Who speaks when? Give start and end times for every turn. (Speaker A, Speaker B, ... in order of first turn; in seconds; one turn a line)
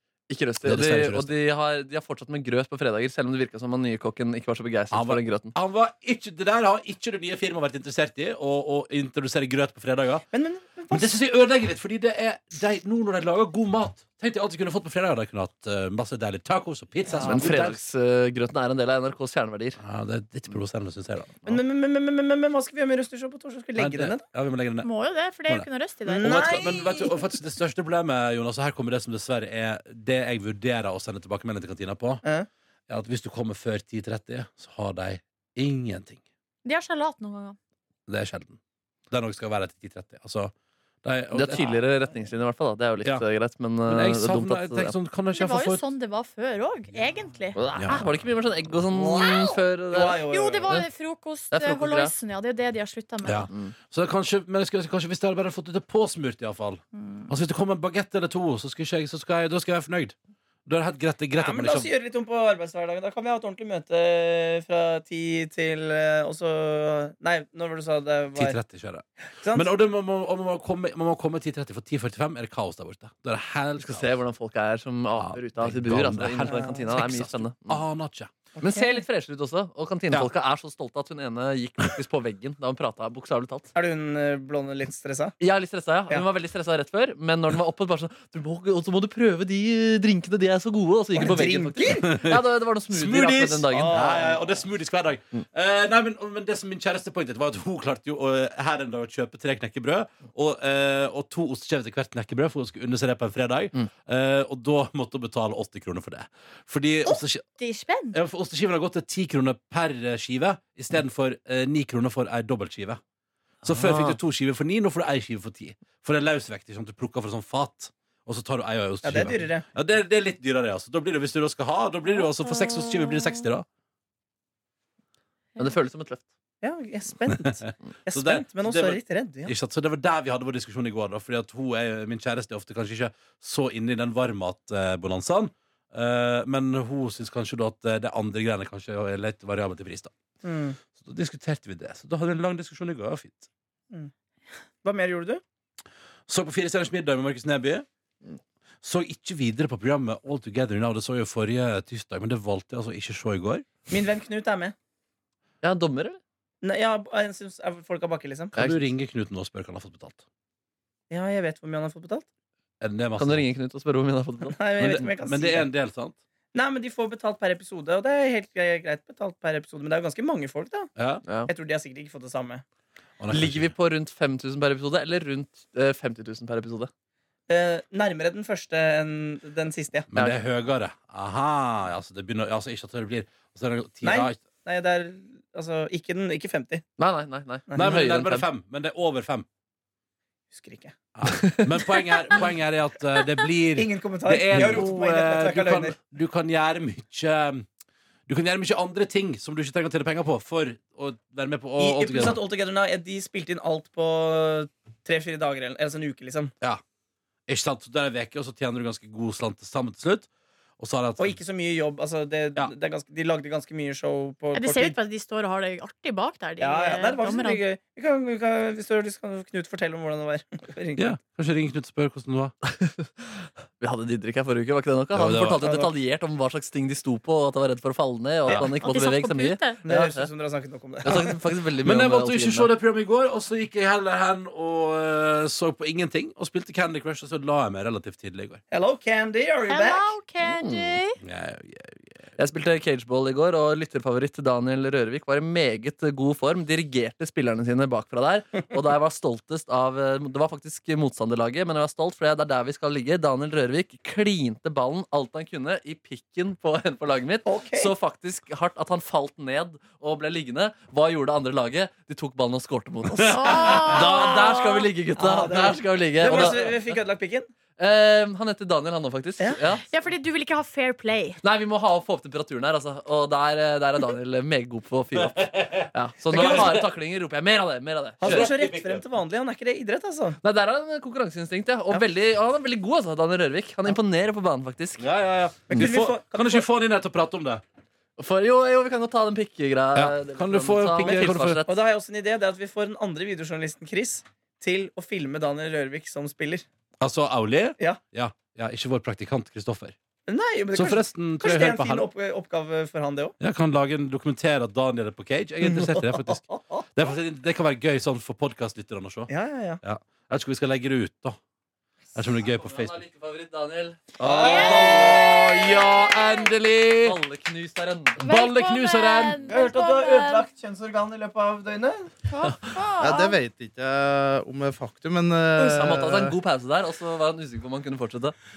Speaker A: 0.3-5.5
Speaker B: 0.6-1.3
Speaker B: 4.9-10.3
Speaker C: 10.3-11.1
Speaker B: 10.9-17.8
Speaker C: 17.1-17.5
Speaker A: 17.2-19.8
Speaker B: 19.8-21.4
Speaker C: 21.4-24.2
Speaker B: 23.8-24.9
Speaker D: 24.8-26.4
Speaker C: 26.1-27.1
Speaker B: 26.2-32.2
Speaker B: 32.9-36.2
Speaker D: 36.6-37.5
Speaker B: 38.1-38.6
Speaker B: 39.1-40.5
Speaker B: 41.0-41.8
Speaker A: 41.3-44.9
Speaker B: 43.9-45.8
Speaker D: 45.3-47.6
Speaker A: 47.5-50.9
Speaker B: 47.8-48.1
Speaker C: 49.0-49.4
Speaker C: 49.9-50.7
Speaker D: 50.3-53.5
Speaker A: 51.5-52.1
Speaker B: 53.2-60.1
Speaker A: 53.5-53.7
Speaker D: 57.0-57.3
Speaker B: 60.6-61.9
Speaker C: 61.4-68.5
Speaker B: 68.3-74.2
Speaker A: 73.8-77.8
Speaker B: 75.2-78.3
Speaker C: 76.4-76.8
Speaker C: 78.6-79.0
Speaker A: 78.6-83.7
Speaker C: 83.7-85.3
Speaker A: 85.4-94.0
Speaker C: 91.1-92.2
Speaker B: 92.1-92.4
Speaker B: 92.9-107.5
Speaker C: 93.7-94.6
Speaker D: 107.0-108.2
Speaker B: 108.1-113.0
Speaker B: 113.6-123.6
Speaker A: 113.6-114.2
Speaker C: 119.0-119.6
Speaker D: 122.2-123.4
Speaker A: 125.6-126.2
Speaker C: 126.6-129.5
Speaker B: 128.1-140.1
Speaker C: 140.4-140.8
Speaker B: 141.0-143.5
Speaker C: 144.8-145.4
Speaker B: 146.3-147.8
Speaker B: 148.8-153.7
Speaker C: 153.9-154.7
Speaker A: 155.6-156.2
Speaker C: 156.6-158.6
Speaker B: 158.5-160.2
Speaker A: 158.6-158.8
Speaker C: 161.1-162.3
Speaker B: 162.8-163.5
Speaker A: 163.2-164.6
Speaker C: 164.5-165.7
Speaker B: 164.8-166.2
Speaker C: 166.5-170.9
Speaker B: 171.0-171.2
Speaker C: 171.5-172.6
Speaker B: 173.2-173.7
Speaker A: 173.3-176.9
Speaker C: 177.5-180.1
Speaker B: 180.1-184.4
Speaker C: 184.0-186.8
Speaker A: 187.0-188.5
Speaker B: 187.8-189.4
Speaker C: 190.5-190.9
Speaker B: 191.2-197.7
Speaker C: 193.7-195.9
Speaker B: 198.3-202.4
Speaker C: 201.8-206.5
Speaker B: 207.5-210.3
Speaker B: 210.8-211.4
Speaker C: 211.2-215.0
Speaker D: 214.5-217.6
Speaker C: 216.6-221.1
Speaker B: 221.0-222.5
Speaker A: 222.6-230.3
Speaker B: 225.1-225.6
Speaker C: 225.6-225.9
Speaker D: 228.8-229.8
Speaker C: 229.8-231.4
Speaker A: 231.0-232.7
Speaker B: 231.8-238.6
Speaker C: 238.7-240.1
Speaker D: 239.7-241.2
Speaker A: 240.4-241.0
Speaker B: 241.2-242.1
Speaker A: 242.4-266.7
Speaker C: 257.4-257.9
Speaker B: 263.1-264.7
Speaker D: 263.3-264.9
Speaker C: 265.1-267.5
Speaker B: 266.3-266.7
Speaker A: 267.8-269.9
Speaker D: 269.9-271.4
Speaker A: 271.4-278.5
Speaker B: 275.1-276.8
Speaker C: 276.3-276.8
Speaker C: 278.2-280.4
Speaker B: 278.2-279.0
Speaker A: 280.4-285.0
Speaker B: 285.0-287.6
Speaker C: 285.7-286.7
Speaker A: 288.2-291.8
Speaker B: 289.9-291.6
Speaker C: 291.0-296.6
Speaker B: 297.0-299.9
Speaker C: 300.3-303.3
Speaker B: 300.7-302.1
Speaker B: 303.4-306.4
Speaker C: 305.6-306.6
Speaker B: 306.9-309.3
Speaker C: 309.3-309.8
Speaker B: 309.8-311.4
Speaker B: 312.1-313.0
Speaker A: 312.4-314.2
Speaker B: 314.2-317.2
Speaker C: 314.2-315.1
Speaker D: 314.4-316.5
Speaker A: 317.0-318.2
Speaker D: 318.2-320.4
Speaker B: 318.2-319.4
Speaker C: 319.5-322.1
Speaker D: 322.3-323.4
Speaker E: 323.0-326.4
Speaker A: 325.6-328.3